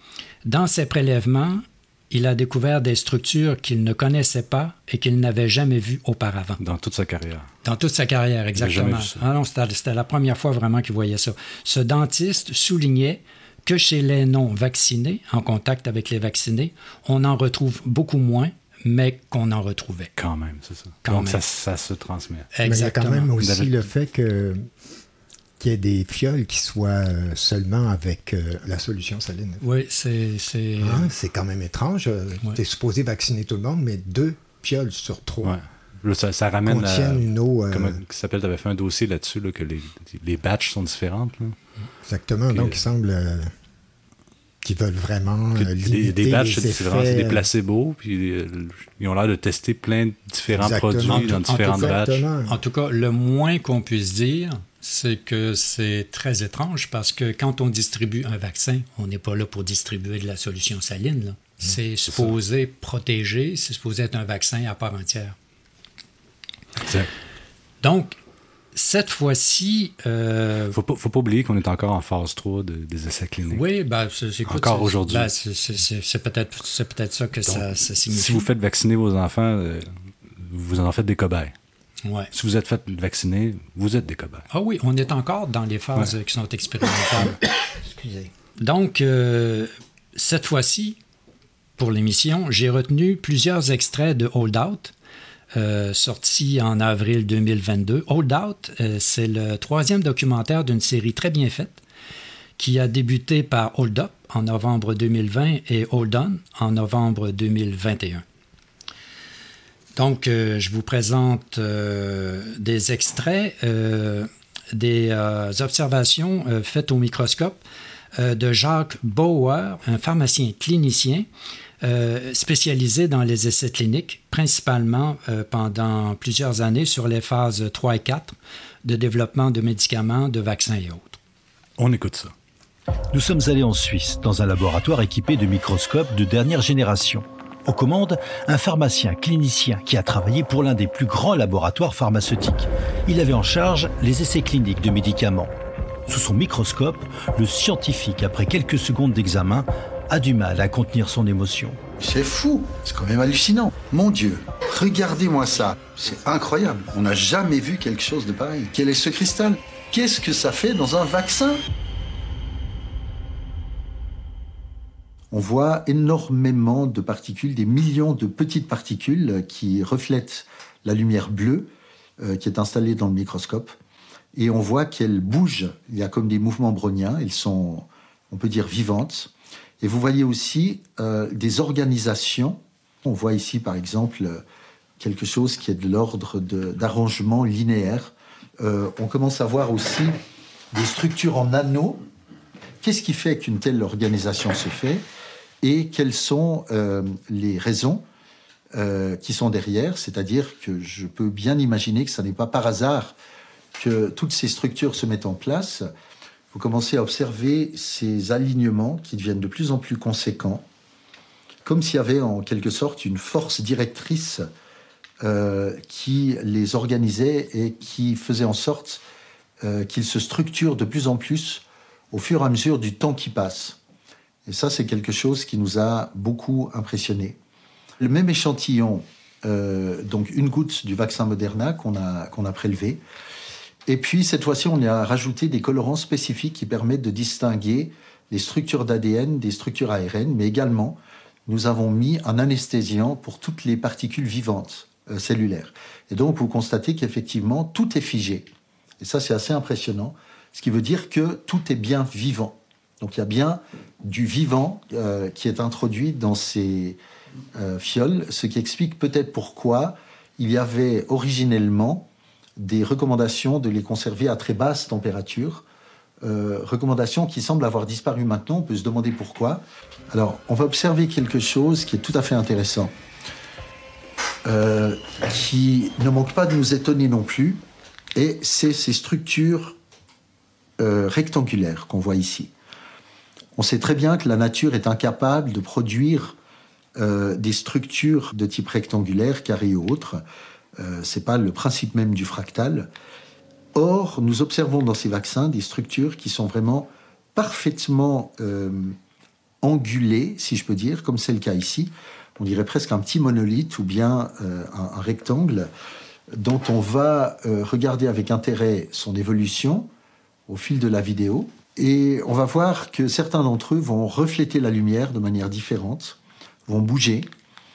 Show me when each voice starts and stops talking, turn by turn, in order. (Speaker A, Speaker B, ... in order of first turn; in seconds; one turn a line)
Speaker A: 0.5-6.6
Speaker B: 6.6-7.5
Speaker A: 7.6-20.1
Speaker B: 8.6-9.2
Speaker B: 20.2-22.5
Speaker A: 21.1-21.4
Speaker A: 22.5-23.3
Speaker C: 22.6-24.7
Speaker B: 23.4-23.8
Speaker C: 25.6-29.6
Speaker A: 29.6-31.1
Speaker C: 30.8-35.6
Speaker B: 35.4-41.6
Speaker C: 36.6-38.0
Speaker C: 42.0-43.5
Speaker B: 42.5-42.8
Speaker C: 44.6-47.5
Speaker B: 45.6-52.2
Speaker C: 50.5-52.6
Speaker A: 51.1-65.4
Speaker B: 66.8-67.1
Speaker A: 67.8-68.2
Speaker A: 68.7-70.8
Speaker B: 70.7-73.7
Speaker A: 73.5-78.5
Speaker B: 74.5-75.3
Speaker B: 77.5-81.5
Speaker A: 82.0-82.3
Speaker B: 82.3-84.5
Speaker A: 84.5-87.4
Speaker A: 88.6-91.0
Speaker A: 91.8-94.9
Speaker A: 95.5-101.8
Speaker A: 102.6-108.2
Speaker A: 110.0-117.6
Speaker A: 118.2-121.3
Speaker A: 121.8-131.2
Speaker B: 131.8-132.3
Speaker D: 133.1-145.5
Speaker D: 146.1-151.8
Speaker E: 152.0-161.6
Speaker E: 165.3-173.7
Speaker E: 174.4-184.4
Speaker E: 185.0-190.2
Speaker E: 190.7-192.0
Speaker E: 192.8-195.1
Speaker E: 195.6-198.1
Speaker E: 198.7-203.2
Speaker E: 203.8-205.9
Speaker E: 206.5-210.7
Speaker E: 211.7-214.5
Speaker E: 215.2-219.0
Speaker E: 219.6-223.8
Speaker E: 224.5-227.4
Speaker E: 228.0-233.0
Speaker E: 233.9-248.5
Speaker E: 249.0-257.0
Speaker E: 257.6-265.7
Speaker E: 266.2-272.9
Speaker E: 274.5-277.6
Speaker E: 278.1-279.8
Speaker E: 280.8-282.5
Speaker E: 283.6-286.4
Speaker E: 287.0-290.2
Speaker E: 290.8-292.9
Speaker E: 293.8-299.0
Speaker E: 299.6-305.7
Speaker E: 306.3-309.9
Speaker E: 310.5-317.3